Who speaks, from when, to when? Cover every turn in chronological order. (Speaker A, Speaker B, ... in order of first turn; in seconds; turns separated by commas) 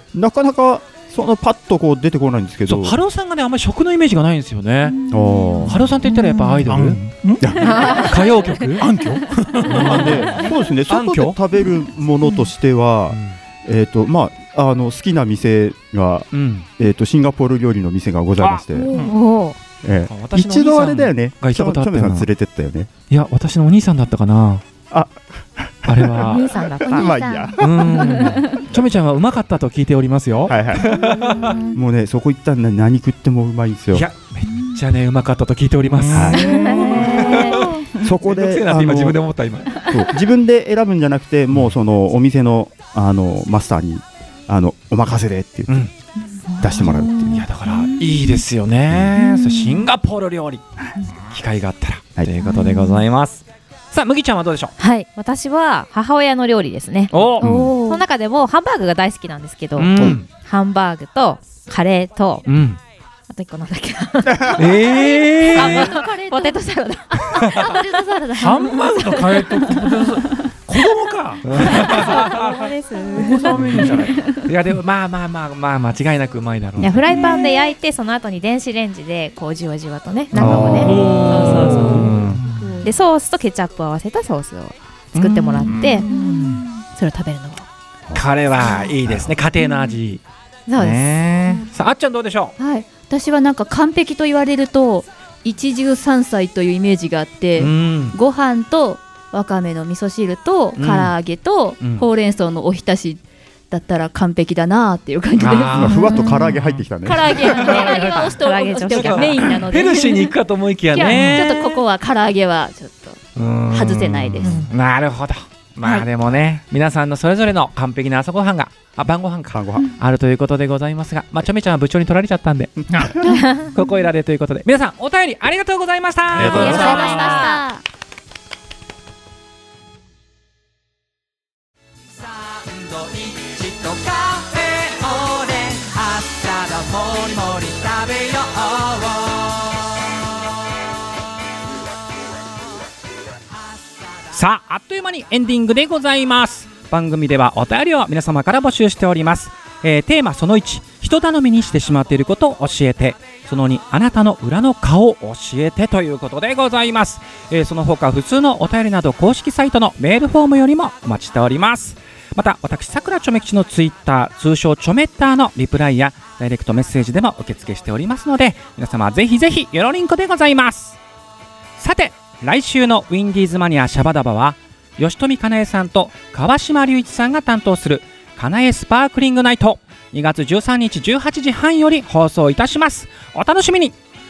Speaker A: 0.1-3.0, Speaker B: 2.7-5.0, Speaker C: 5.0-5.7, Speaker A: 5.1-5.9, Speaker D: 5.1-6.6, Speaker B: 5.6-7.0, Speaker E: 6.7-8.1, Speaker A: 7.4-7.9, Speaker B: 7.6-8.9, Speaker D: 7.6-10.5, Speaker E: 8.8-10.2, Speaker B: 9.7-10.3, Speaker A: 9.7-18.9, Speaker B: 10.9-11.4, Speaker B: 16.3-16.7, Speaker D: 18.7-19.6, Speaker A: 19.8-22.9, Speaker B: 20.1-22.3, Speaker B: 23.1-24.6, Speaker A: 24.9-28.1, Speaker B: 25.9-26.4, Speaker D: 26.2-27.5, Speaker C: 26.9-28.6, Speaker B: 27.6-31.6, Speaker D: 28.1-28.4, Speaker A: 30.5-31.1, Speaker C: 31.5-31.8, Speaker A: 31.7-34.0, Speaker B: 33.9-39.9, Speaker E: 35.9-37.6, Speaker A: 36.1-36.5, Speaker D: 36.3-37.6, Speaker C: 36.5-37.8, Speaker A: 37.8-45.8, Speaker D: 46.5-47.4, Speaker A: 46.6-47.5, Speaker B: 47.2-50.6, Speaker C: 47.8-48.2, Speaker B: 51.3-54.7, Speaker D: 52.5-53.0, Speaker D: 54.8-62.5, Speaker B: 57.1-57.5, Speaker C: 57.4-58.0, Speaker A: 57.4-57.8, Speaker B: 59.8-60.3, Speaker B: 62.5-62.8, Speaker D: 63.3-67.9, Speaker A: 64.2-64.6, Speaker B: 64.5-66.0, Speaker C: 65.0-66.6, Speaker C: 67.2-68.8, Speaker B: 67.4-67.8, Speaker E: 68.4-74.3, Speaker D: 69.1-70.2, Speaker B: 71.4-72.6, Speaker D: 71.6-74.2, Speaker B: 73.7-77.1, Speaker D: 76.8-82.1, Speaker C: 77.1-77.5, Speaker A: 80.3-81.2, Speaker B: 80.4-82.4, Speaker E: 80.5-82.8, Speaker C: 82.6-82.9, Speaker D: 82.8-87.6, Speaker B: 85.1-86.0, Speaker E: 85.7-86.6, Speaker C: 86.0-86.8, Speaker B: 88.1-90.2, Speaker A: 88.8-89.3, Speaker C: 90.7-91.6, Speaker B: 90.8-92.5, Speaker C: 92.6-106.3, Speaker B: 97.5-98.2, Speaker B: 100.8-101.1, Speaker B: 101.8-102.1, Speaker B: 105.3-106.8, Speaker A: 105.7-107.4, Speaker D: 105.8-106.5, Speaker C: 107.0-110.3, Speaker B: 107.4-107.8, Speaker D: 107.5-109.9, Speaker E: 107.5-108.2, Speaker B: 108.9-111.8, Speaker C: 110.9-114.6, Speaker D: 111.3-111.6, Speaker B: 113.3-127.6, Speaker D: 114.4-114.7, Speaker A: 119.5-120.0, Speaker E: 122.9-123.3, Speaker E: 126.3-127.4, Speaker C: 126.4-127.8, Speaker A: 126.4-126.7, Speaker D: 126.4-127.6, Speaker B: 132.6-139.6, Speaker B: 144.3-171.0, Speaker B: 171.8-183.9